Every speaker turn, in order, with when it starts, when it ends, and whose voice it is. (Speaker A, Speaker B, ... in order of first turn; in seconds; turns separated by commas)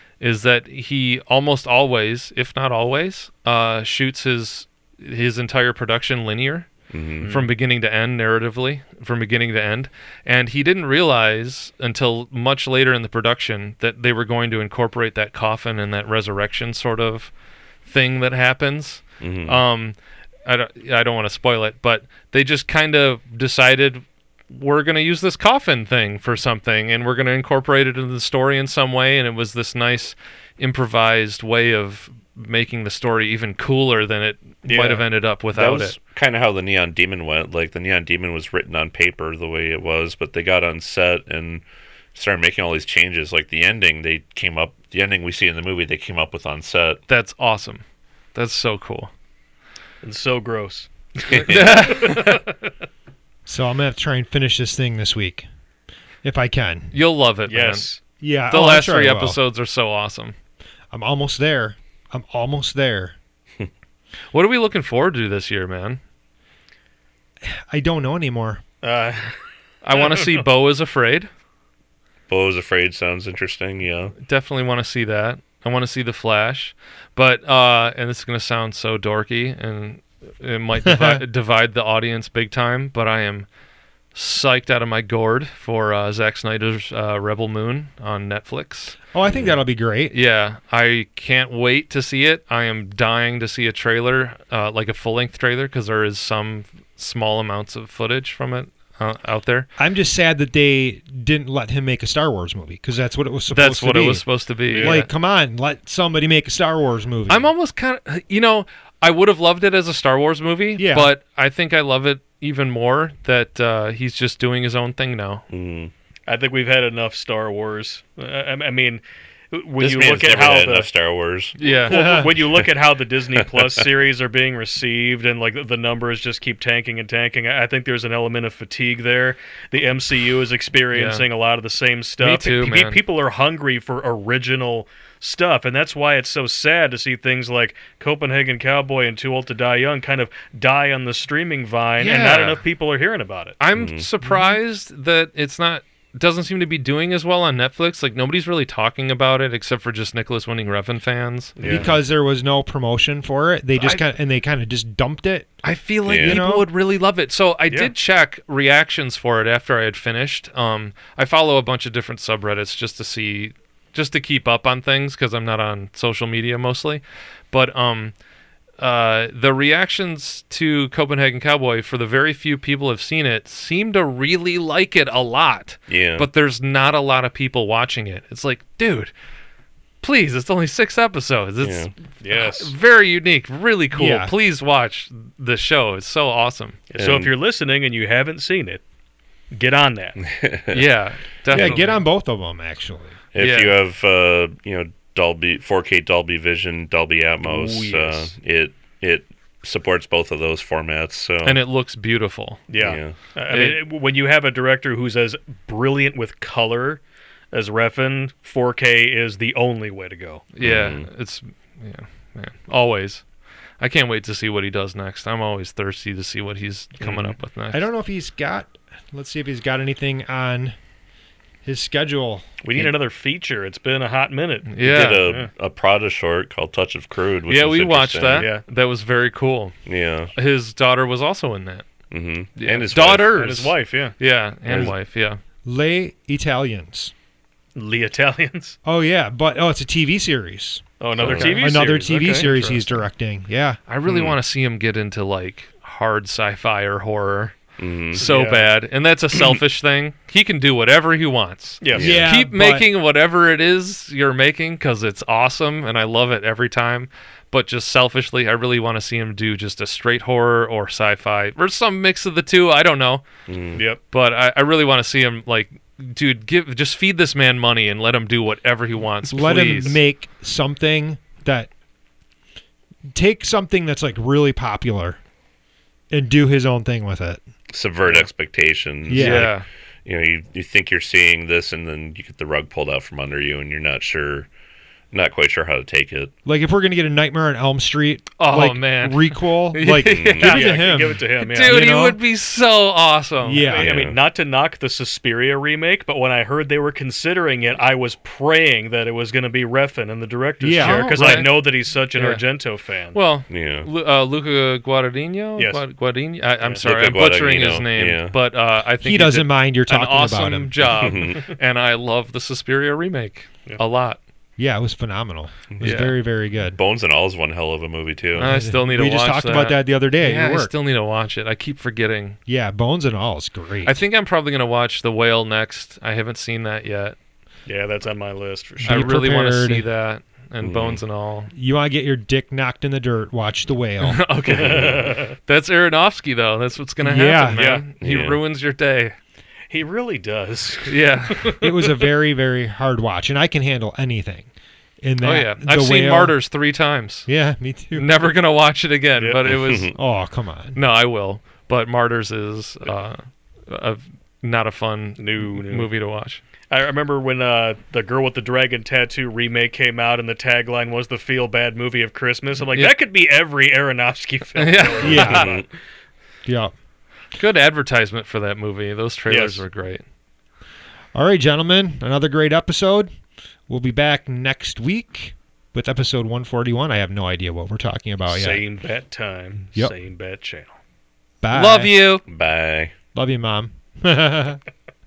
Speaker A: 0.2-17.3, Speaker B: 6.9-7.3, Speaker C: 7.2-7.5, Speaker A: 17.9-36.0, Speaker B: 19.2-19.6, Speaker C: 34.6-35.0, Speaker B: 35.5-41.6, Speaker B: 42.1-47.0, Speaker A: 47.1-47.8, Speaker A: 48.4-49.1, Speaker C: 50.0-52.5, Speaker B: 51.3-51.8, Speaker A: 51.3-52.5, Speaker D: 53.5-55.5, Speaker D: 56.2-56.9, Speaker A: 56.9-57.9, Speaker C: 57.5-58.0, Speaker D: 58.2-59.4, Speaker A: 58.5-60.4, Speaker D: 60.9-63.2, Speaker A: 64.3-66.0, Speaker D: 67.5-68.6, Speaker C: 68.8-69.4, Speaker A: 69.8-71.3, Speaker C: 69.9-70.4, Speaker B: 72.3-74.2, Speaker A: 74.2-83.5, Speaker D: 80.8-81.2, Speaker A: 84.1-89.0, Speaker D: 89.1-90.2, Speaker B: 89.3-89.5, Speaker A: 90.1-99.7, Speaker D: 99.8-107.5, Speaker A: 103.5-105.1, Speaker C: 104.7-105.0, Speaker A: 107.3-115.5, Speaker D: 110.8-111.1, Speaker B: 115.5-115.9, Speaker C: 116.3-120.9, Speaker B: 119.8-121.6, Speaker A: 121.6-122.3, Speaker C: 121.7-143.6, Speaker D: 121.9-122.3, Speaker B: 123.4-123.8, Speaker A: 130.9-131.2, Speaker A: 132.2-133.0, Speaker A: 142.0-142.6, Speaker A: 143.6-151.6, Speaker B: 143.7-144.1, Speaker C: 151.6-151.9, Speaker D: 151.6-155.6, Speaker A: 155.6-168.1, Speaker B: 156.1-156.4, Speaker D: 156.1-156.7, Speaker A: 168.8-179.1, Speaker B: 175.9-176.3, Speaker A: 180.0-186.8, Speaker B: 181.6-181.9, Speaker C: 182.2-182.7, Speaker D: 183.9-184.3, Speaker C: 186.9-188.8, Speaker B: 187.0-187.3, Speaker C: 189.5-190.2, Speaker B: 190.3-190.9, Speaker A: 190.7-192.0, Speaker B: 191.5-191.8, Speaker D: 191.5-193.2, Speaker B: 193.3-201.6, Speaker A: 193.4-193.8, Speaker C: 197.4-198.3, Speaker A: 201.4-202.6, Speaker C: 202.7-207.0, Speaker B: 202.8-203.2, Speaker A: 203.5-203.8, Speaker C: 207.5-210.5, Speaker A: 210.5-213.2, Speaker B: 210.6-211.1, Speaker A: 213.8-217.9, Speaker B: 217.0-217.3, Speaker D: 217.7-220.8, Speaker D: 221.6-222.5, Speaker C: 222.6-225.5, Speaker A: 224.7-225.3, Speaker B: 224.8-228.5, Speaker A: 227.5-229.8, Speaker C: 228.4-228.6, Speaker B: 229.9-230.3, Speaker A: 230.3-231.9, Speaker B: 232.1-233.5, Speaker A: 232.6-235.4, Speaker C: 233.1-234.2, Speaker B: 234.7-235.0, Speaker D: 235.7-237.1, Speaker C: 237.8-238.8, Speaker D: 238.8-243.8, Speaker C: 241.0-242.5, Speaker B: 241.2-241.8, Speaker A: 242.3-243.0, Speaker A: 243.9-263.2, Speaker B: 244.1-244.4, Speaker B: 247.8-248.2, Speaker C: 248.2-248.7, Speaker C: 251.8-252.2, Speaker B: 251.9-252.3, Speaker D: 251.9-252.9, Speaker B: 263.5-263.9, Speaker C: 263.8-264.0, Speaker A: 264.1-270.0, Speaker D: 269.3-271.7, Speaker D: 273.1-275.2, Speaker D: 276.1-277.4, Speaker B: 277.7-284.5, Speaker D: 279.1-279.5, Speaker A: 279.1-279.6, Speaker B: 285.1-286.3, Speaker D: 286.4-292.2, Speaker A: 288.4-293.7, Speaker B: 290.1-290.6, Speaker C: 290.4-291.9, Speaker D: 293.4-293.9, Speaker C: 293.6-303.2, Speaker B: 293.8-294.2, Speaker D: 300.6-301.5, Speaker A: 300.8-302.4, Speaker A: 303.1-314.2, Speaker B: 303.5-303.9, Speaker C: 305.6-305.8, Speaker C: 306.6-306.9, Speaker B: 306.8-308.4, Speaker D: 309.0-310.9, Speaker B: 310.9-311.5, Speaker D: 314.6-316.8, Speaker A: 315.8-316.2, Speaker B: 316.7-318.6, Speaker D: 318.4-320.7, Speaker A: 318.4-322.4, Speaker D: 322.5-324.0, Speaker A: 323.9-327.2, Speaker C: 327.7-329.0, Speaker D: 328.8-329.9, Speaker A: 328.9-331.5, Speaker B: 330.6-331.0, Speaker D: 331.5-334.2, Speaker A: 334.0-339.1, Speaker B: 334.5-335.2, Speaker C: 334.5-335.3, Speaker D: 337.0-337.7, Speaker C: 337.5-337.9, Speaker B: 338.0-338.4, Speaker C: 339.7-341.7, Speaker A: 340.9-341.6, Speaker D: 341.6-344.5, Speaker D: 345.0-346.4, Speaker A: 345.2-347.3, Speaker D: 347.3-348.1, Speaker A: 347.9-350.0, Speaker B: 349.4-349.9, Speaker D: 349.9-350.8, Speaker A: 350.7-356.4, Speaker C: 355.2-355.9, Speaker C: 356.7-365.7, Speaker A: 364.6-365.5, Speaker D: 365.0-365.5, Speaker B: 365.0-365.7, Speaker D: 366.5-366.7, Speaker A: 367.4-370.0, Speaker C: 369.3-369.6, Speaker D: 371.1-373.1, Speaker D: 373.7-378.6, Speaker C: 378.3-380.7, Speaker D: 381.4-381.9, Speaker A: 381.5-382.2, Speaker B: 382.3-382.9, Speaker D: 383.1-384.6